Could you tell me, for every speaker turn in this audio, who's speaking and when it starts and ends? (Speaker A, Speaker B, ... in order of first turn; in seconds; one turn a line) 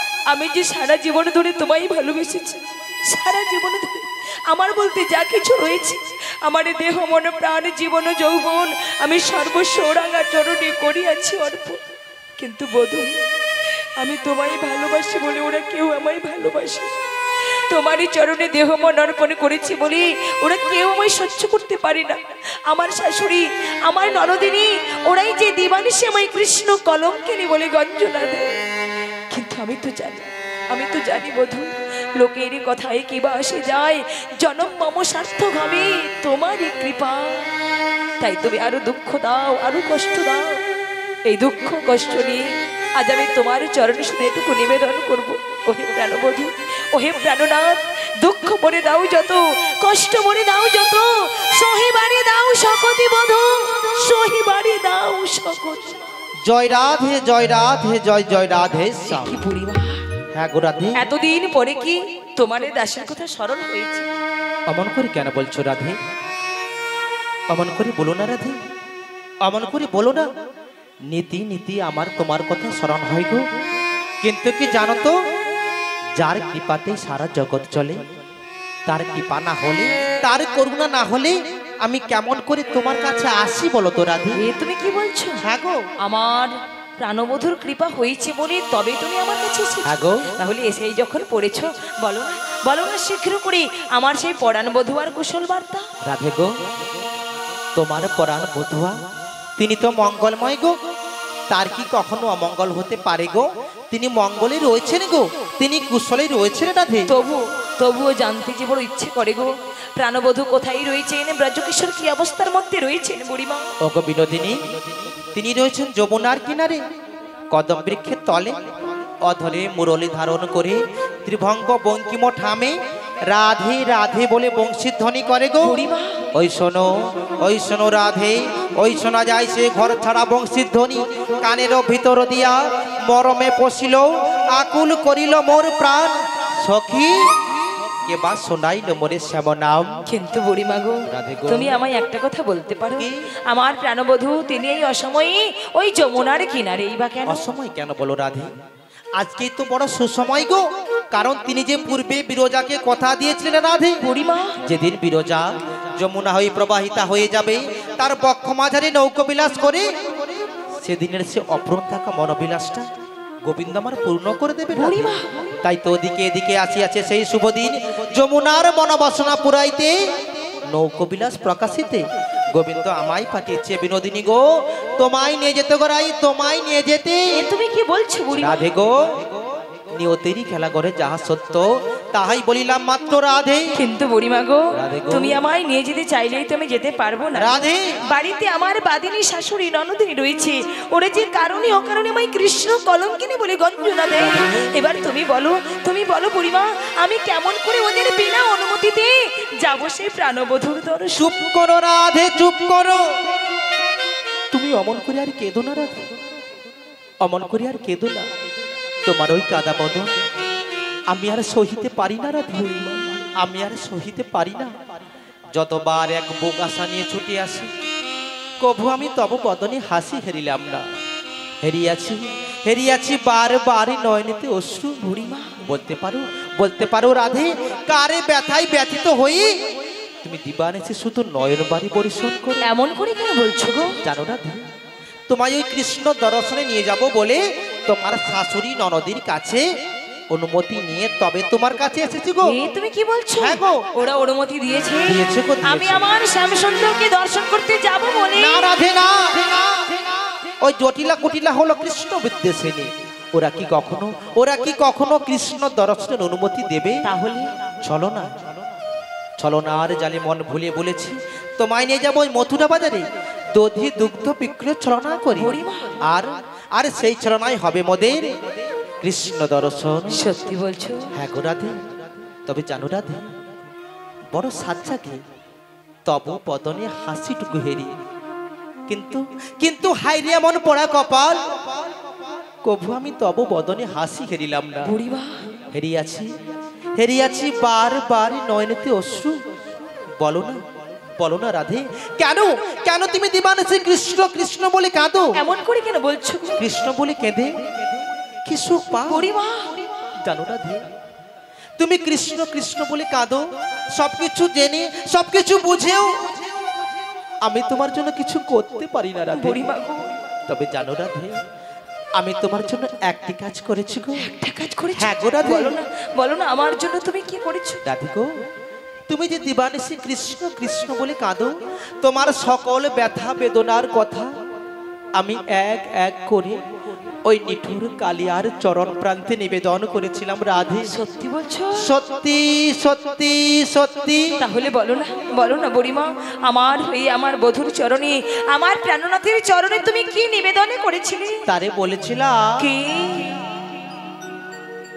Speaker A: 0.3-11.8
Speaker A: 12.4-13.2
Speaker A: 14.0-16.9
Speaker A: 17.5-28.5
Speaker A: 29.3-37.5
Speaker A: 38.2-40.6
Speaker A: 41.2-56.0
Speaker B: 56.5-59.4
Speaker A: 59.1-60.0
Speaker B: 60.3-61.0
Speaker A: 61.0-64.1
Speaker B: 64.7-66.0
Speaker B: 67.5-68.6
Speaker B: 69.4-70.3
Speaker B: 71.1-73.5
Speaker B: 74.2-75.2
Speaker B: 76.2-78.1
Speaker B: 78.9-84.4
Speaker A: 84.3-85.4
Speaker B: 85.4-85.8
Speaker A: 86.0-95.9
Speaker B: 89.8-90.3
Speaker B: 96.0-96.6
Speaker B: 97.8-99.0
Speaker B: 99.6-100.8
Speaker B: 101.5-107.1
Speaker A: 107.1-113.7
Speaker B: 113.8-114.6
Speaker B: 115.3-116.8
Speaker B: 117.5-125.8
Speaker A: 125.6-126.2
Speaker B: 126.3-137.4
Speaker B: 138.1-140.0
Speaker A: 140.1-147.5
Speaker B: 141.1-141.8
Speaker B: 147.3-148.5
Speaker B: 149.2-154.0
Speaker A: 154.0-154.6
Speaker B: 154.6-162.9
Speaker B: 163.4-169.9
Speaker A: 164.7-165.5
Speaker B: 170.7-177.4
Speaker A: 177.3-178.7
Speaker B: 178.4-179.4
Speaker B: 179.9-183.7
Speaker A: 183.7-201.3
Speaker B: 184.8-185.4
Speaker B: 187.4-188.0
Speaker B: 201.2-203.2
Speaker B: 204.5-206.1
Speaker B: 207.2-208.3
Speaker B: 209.1-210.1
Speaker B: 211.1-214.8
Speaker B: 215.6-217.7
Speaker B: 218.6-220.9
Speaker B: 221.6-229.6
Speaker A: 225.2-225.6
Speaker B: 230.2-232.7
Speaker A: 232.6-234.0
Speaker B: 234.0-234.7
Speaker B: 235.3-239.7
Speaker B: 240.3-242.6
Speaker A: 242.4-248.7
Speaker B: 243.4-243.8
Speaker B: 245.1-246.1
Speaker B: 248.4-257.1
Speaker A: 257.1-257.6
Speaker B: 257.8-258.5
Speaker B: 259.4-268.2
Speaker A: 265.4-266.0
Speaker B: 269.0-270.2
Speaker A: 270.1-271.1
Speaker B: 271.1-271.9
Speaker B: 272.5-273.3
Speaker B: 274.3-275.2
Speaker B: 276.1-277.9
Speaker B: 278.9-281.6
Speaker B: 282.6-284.9
Speaker A: 284.8-285.5
Speaker B: 285.7-286.3
Speaker B: 287.0-289.4
Speaker B: 290.2-295.3
Speaker A: 295.4-296.6
Speaker B: 296.6-297.9
Speaker B: 298.5-299.3
Speaker A: 299.1-300.1
Speaker B: 300.2-300.8
Speaker B: 301.8-306.4
Speaker B: 307.4-309.6
Speaker A: 309.3-310.1
Speaker B: 310.5-311.4
Speaker B: 312.2-314.2
Speaker A: 314.2-317.8
Speaker B: 315.0-315.8
Speaker B: 317.9-318.3
Speaker B: 319.1-324.3
Speaker B: 325.2-326.6
Speaker B: 327.2-330.9
Speaker A: 330.9-331.9
Speaker B: 331.8-334.4
Speaker A: 334.4-341.4
Speaker B: 341.5-342.7
Speaker A: 342.6-343.6